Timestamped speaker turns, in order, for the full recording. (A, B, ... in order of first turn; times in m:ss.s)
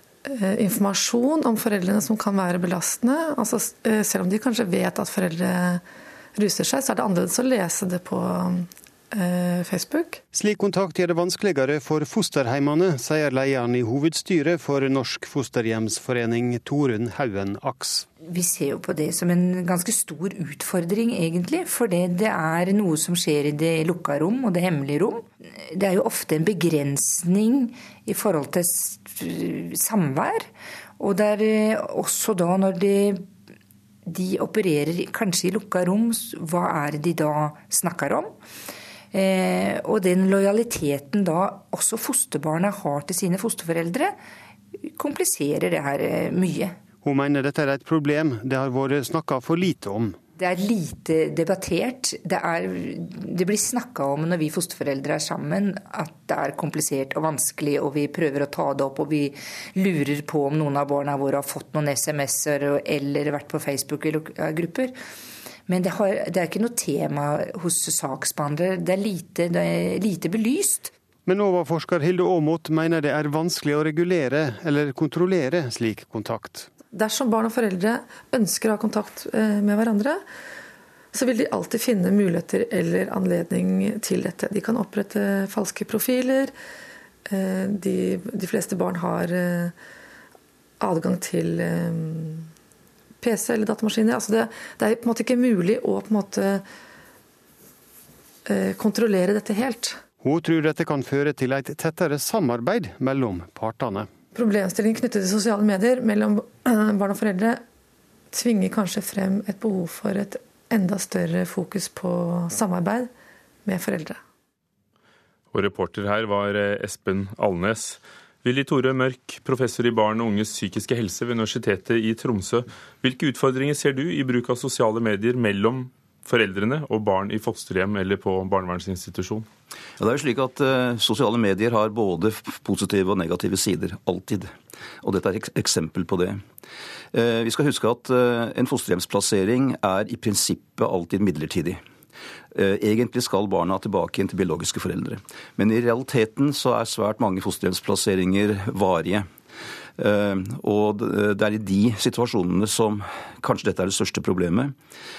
0:00.2-0:05.8 A
0:06.4-0:10.2 A
0:10.3-0:18.1 B
0:18.2-0:33.3 C
0:34.0-0:38.3 C
0:39.1-0:44.2 C
0:44.8-0:46.8 C
0:47.0-0:50.2 B
0:50.4-1:04.9 C
1:05.7-1:10.9 C
1:11.2-1:16.7 B
1:16.9-1:20.2 A
1:21.1-1:26.5 A
1:27.3-1:29.7 A
1:30.8-1:32.5 A
1:33.2-1:36.6 A
1:38.4-1:40.0 A
1:40.2-1:44.1 B
1:44.3-1:47.6 A
1:48.3-1:53.1 A
1:53.6-1:54.2 A
1:55.5-2:09.4 D
2:10.0-2:16.4 E
2:17.1-2:21.8 E
2:22.5-2:29.3 E
2:30.0-2:34.7 E